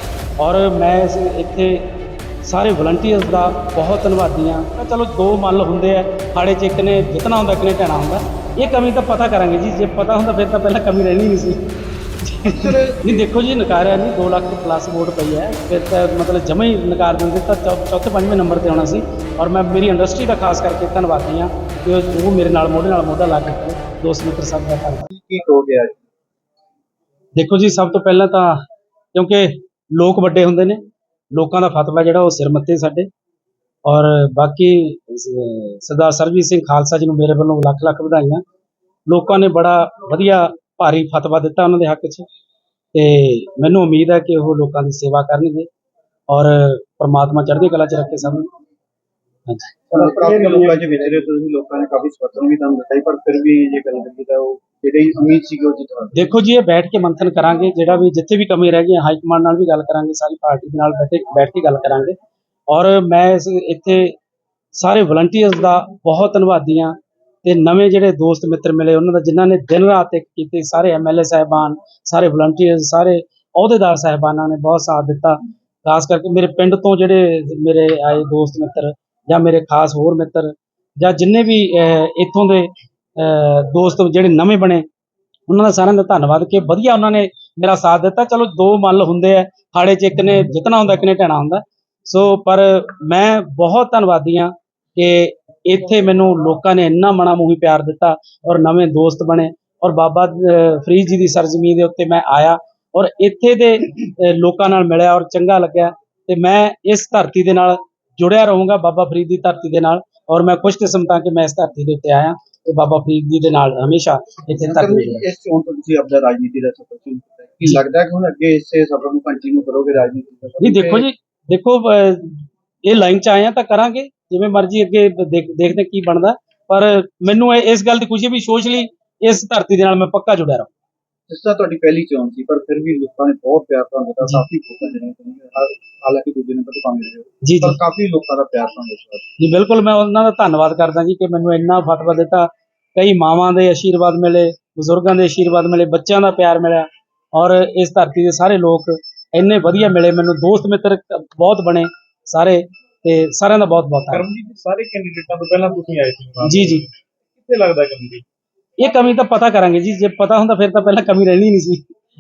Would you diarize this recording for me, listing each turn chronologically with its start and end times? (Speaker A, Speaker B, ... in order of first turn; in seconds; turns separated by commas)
Speaker A: 0.4-1.8, Speaker A: 2.4-11.6, Speaker A: 12.2-25.1, Speaker B: 12.4-13.2, Speaker B: 25.1-26.0, Speaker A: 27.4-28.6, Speaker A: 29.1-30.8, Speaker A: 31.3-33.1, Speaker A: 33.9-38.4, Speaker A: 39.1-42.3, Speaker A: 42.9-45.7, Speaker A: 46.3-48.5, Speaker A: 49.5-49.8, Speaker B: 49.9-56.3, Speaker C: 50.4-50.9, Speaker A: 56.1-62.1, Speaker A: 62.7-64.1, Speaker A: 64.7-84.8, Speaker A: 85.5-115.2, Speaker B: 114.5-121.1, Speaker A: 120.6-130.7, Speaker B: 131.3-139.3, Speaker A: 137.4-137.8, Speaker A: 139.4-154.3, Speaker C: 154.1-158.2, Speaker A: 156.4-156.8, Speaker A: 158.8-161.9